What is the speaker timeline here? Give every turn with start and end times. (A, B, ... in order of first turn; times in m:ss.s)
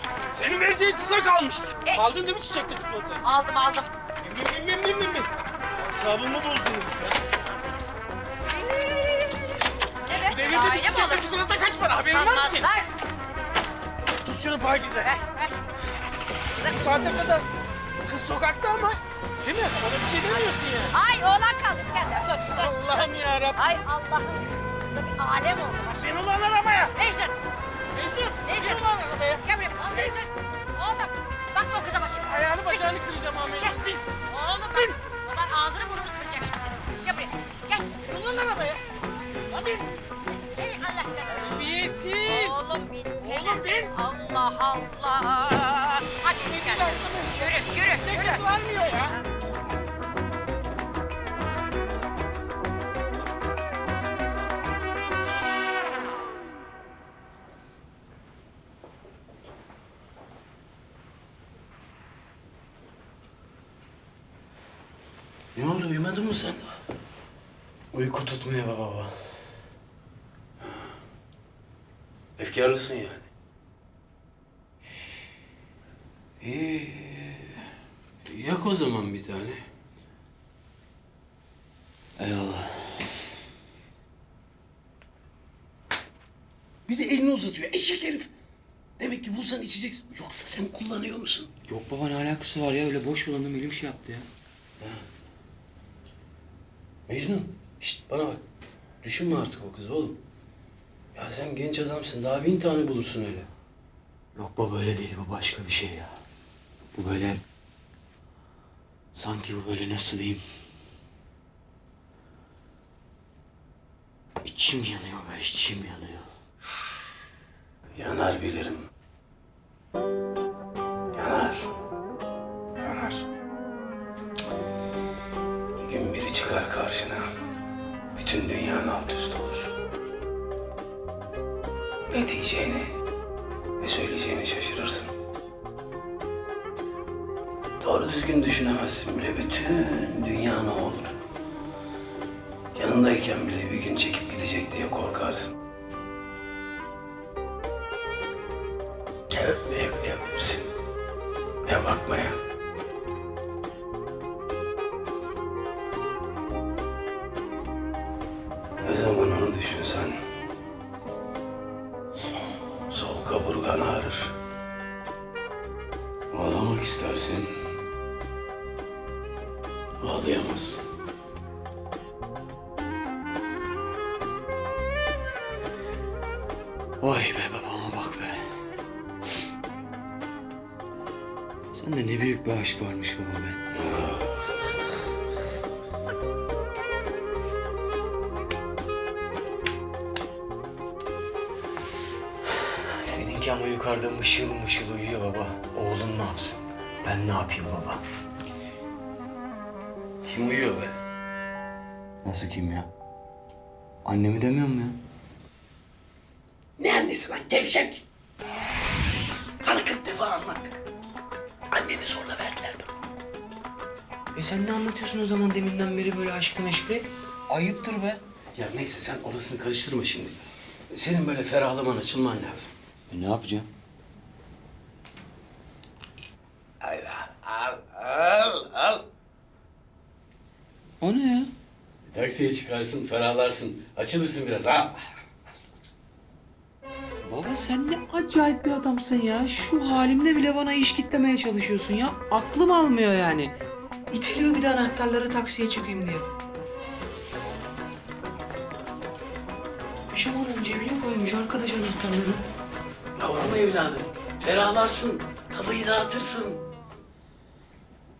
0:00.3-0:01.8 A
0:00.3-0:03.2 B
0:01.8-0:02.2 C
0:03.2-0:03.9 C
0:04.2-0:05.3 A
0:05.8-0:07.1 A
0:06.0-0:07.0 B
0:08.5-0:09.1 C
0:10.0-0:11.4 C
0:10.3-0:12.7 B
0:11.7-0:12.0 A
0:12.0-0:12.9 C
0:14.2-0:15.1 A
0:14.3-0:14.9 B
0:14.9-0:15.6 C
0:16.5-0:17.3 C
0:16.6-0:17.5 B
0:18.0-0:20.9 B
0:20.2-0:26.0 C
0:22.5-0:23.6 B
0:25.9-0:26.9 B
0:26.9-0:27.3 C
0:27.9-0:29.4 B
0:28.4-0:37.9 C
0:32.3-0:34.0 B
0:38.0-0:38.8 B
0:39.5-0:39.9 B
0:40.3-0:49.2 C
0:41.3-0:42.6 B
0:43.2-0:43.9 B
0:46.4-0:49.2 B
1:05.6-1:06.8 A
1:07.9-1:09.2 D
1:12.4-1:13.3 A
1:16.4-1:17.6 A
1:18.2-1:19.6 A
1:22.2-1:23.1 D
1:26.9-1:28.3 A
1:29.0-1:31.5 A
1:31.6-1:34.3 D
1:37.1-1:38.4 A
1:39.0-1:40.2 A
1:41.2-1:43.5 A
1:44.4-1:46.1 D
1:46.9-1:47.4 D
1:49.1-1:50.4 D
1:54.4-1:56.3 D
1:58.0-1:58.9 A
2:01.1-2:01.7 A
2:02.8-2:03.2 A
2:05.8-2:07.3 A
2:08.2-2:09.7 A
2:12.1-2:12.9 A
2:13.8-2:15.1 A
2:17.8-2:21.2 A
2:22.7-2:25.5 A
2:29.3-2:30.7 A
2:31.7-2:32.4 A
2:38.8-2:40.2 A
2:42.1-2:44.3 A
2:46.3-2:47.5 A
2:50.0-2:50.8 A
2:57.0-2:58.5 D
3:01.7-3:03.7 D
3:03.7-3:04.4 A
3:13.0-3:18.0 D
3:20.2-3:20.9 A
3:22.2-3:22.9 D
3:24.0-3:25.0 D
3:26.8-3:28.0 A
3:29.6-3:30.8 A
3:31.7-3:32.9 A
3:34.3-3:38.2 D
3:38.6-3:42.7 A
3:43.1-3:43.7 D
3:46.8-3:49.0 A
3:51.0-3:51.5 D
3:52.1-3:55.1 A
3:57.3-4:03.6 D
4:04.1-4:06.3 D
4:10.1-4:12.4 D
4:13.2-4:16.6 A